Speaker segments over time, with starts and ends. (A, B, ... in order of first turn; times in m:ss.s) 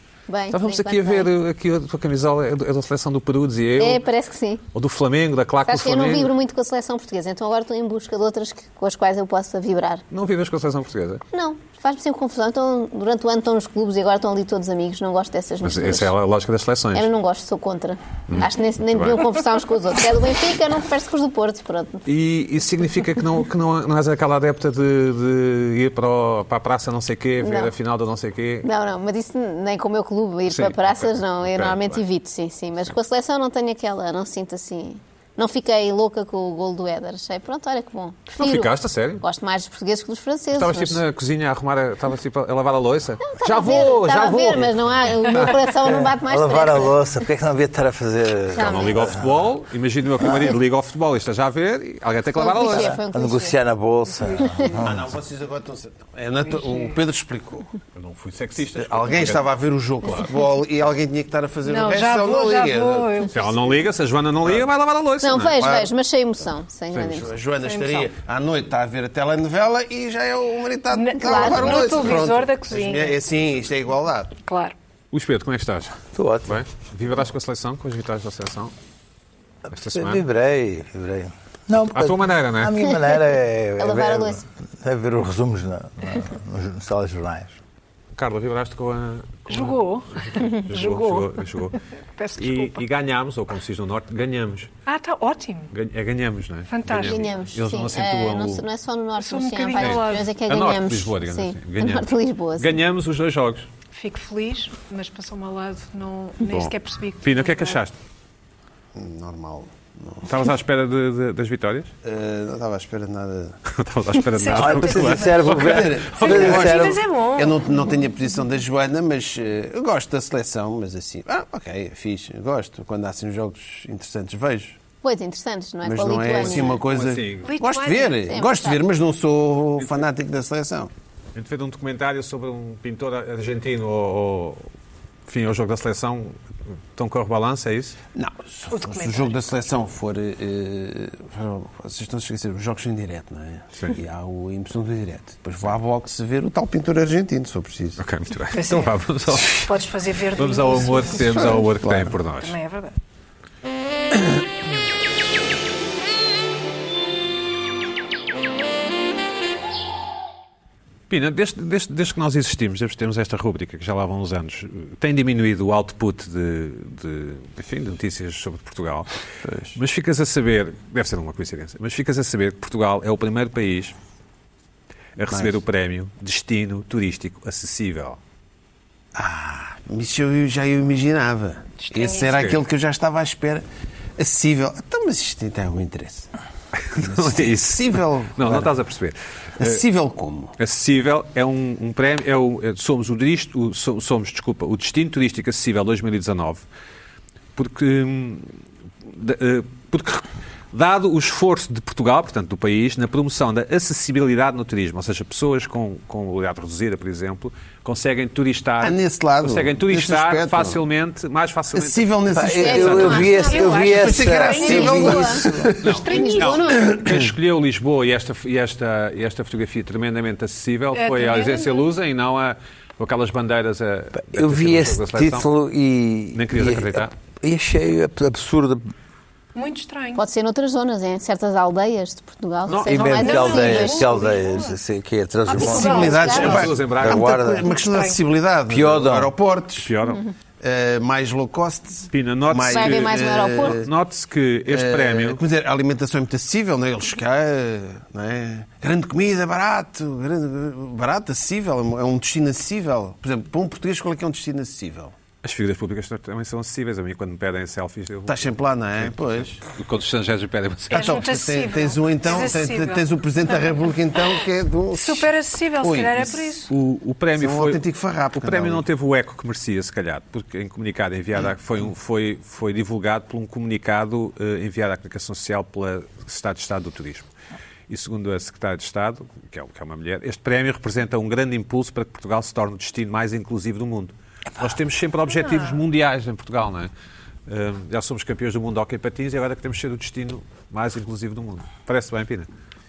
0:00.3-0:01.3 A
0:00.5-0:04.0 B
0:03.8-0:04.6 A
0:04.7-0:06.3 B
0:05.7-0:10.0 A
0:10.1-0:11.2 B
0:11.3-0:16.1 A
0:15.6-0:17.1 B
0:16.9-0:22.0 A
0:18.3-0:19.2 B
0:22.0-0:28.7 B
0:27.4-0:27.7 A
0:28.6-0:41.0 A
0:30.5-0:32.0 B
0:38.3-0:39.2 B
0:40.5-0:44.9 B
0:43.2-0:46.9 A
0:45.4-0:49.5 C
0:48.5-0:49.2 A
0:48.6-0:53.0 B
0:52.3-0:53.6 A
0:52.6-0:55.0 C
0:54.3-0:54.7 A
0:54.7-0:57.7 D
0:56.5-0:56.9 E
0:57.9-0:59.4 B
0:58.7-1:03.3 D
1:01.7-1:03.5 E
1:03.3-1:05.6 B
1:05.2-1:07.3 A
1:05.6-1:05.9 D
1:06.9-1:14.4 D
1:07.6-1:08.1 E
1:10.9-1:13.2 E
1:11.3-1:11.9 A
1:14.5-1:14.7 E
1:15.1-1:18.7 B
1:16.1-1:16.6 C
1:19.7-1:27.6 C
1:19.7-1:20.2 B
1:21.9-1:22.8 B
1:23.8-1:24.4 A
1:28.2-1:31.8 B
1:29.5-1:31.4 E
1:32.2-1:32.8 E
1:32.4-1:34.7 B
1:34.8-1:35.7 E
1:35.7-1:38.6 B
1:36.7-1:37.3 E
1:37.0-1:42.8 A
1:39.2-1:40.3 E
1:39.8-1:43.6 B
1:43.9-1:47.8 E
1:46.4-1:47.9 B
1:48.9-1:50.4 D
1:50.2-1:51.9 B
1:52.0-1:53.6 D
1:53.6-1:56.6 B
1:54.3-1:55.5 E
1:54.5-1:57.0 C
1:55.5-2:04.8 D
1:56.2-1:57.7 E
2:05.0-2:06.8 A
2:05.8-2:10.9 D
2:06.9-2:07.5 B
2:07.4-2:08.4 E
2:08.3-2:08.8 A
2:11.3-2:14.7 B
2:15.3-2:16.4 B
2:16.9-2:18.0 B
2:18.1-2:28.0 D
2:18.7-2:19.3 E
2:28.0-2:29.7 B
2:28.5-2:28.9 E
2:29.4-2:31.6 E
2:30.3-2:32.5 B
2:31.2-2:32.1 D
2:32.4-2:33.0 E
2:41.1-2:49.2 B
2:49.4-2:49.8 D
2:49.7-2:53.9 B
2:55.2-2:58.2 B
2:55.3-2:55.5 D
2:59.1-3:03.6 D
3:01.8-3:02.4 E
3:04.2-3:06.3 D
3:06.7-3:09.8 B
3:06.9-3:08.7 D
3:09.6-3:10.5 D
3:10.6-3:16.6 B
3:17.6-3:33.3 B
3:28.8-3:30.8 D
3:31.7-3:36.1 D
3:32.3-3:35.7 C
3:32.6-3:33.6 A
3:32.6-3:35.3 E
3:34.6-3:35.4 A
3:35.8-3:45.5 B
3:36.0-3:36.8 E
3:36.0-3:36.9 A
3:36.7-3:37.2 D
3:40.9-3:41.8 E
3:44.2-3:48.9 C
3:46.3-3:47.1 B
3:49.5-3:50.2 E
3:50.2-3:54.3 A
3:52.7-3:53.2 B
3:52.8-3:57.7 C
3:53.1-3:54.8 E
3:55.5-3:56.7 A
3:55.5-3:56.7 E
3:55.6-3:59.9 D
3:56.3-3:57.3 B
3:57.7-3:58.2 E
3:58.7-3:59.3 C
3:59.8-4:00.2 B
4:00.6-4:03.9 D
4:02.1-4:05.4 B
4:02.7-4:03.8 A
4:04.7-4:15.1 D
4:15.4-4:21.2 B
4:18.3-4:19.7 D
4:20.9-4:26.4 D
4:20.9-4:23.0 E
4:24.9-4:26.7 E
4:26.7-4:27.8 B
4:27.3-4:28.8 D
4:28.3-4:37.3 B
4:37.9-4:46.9 B
4:47.5-4:52.5 B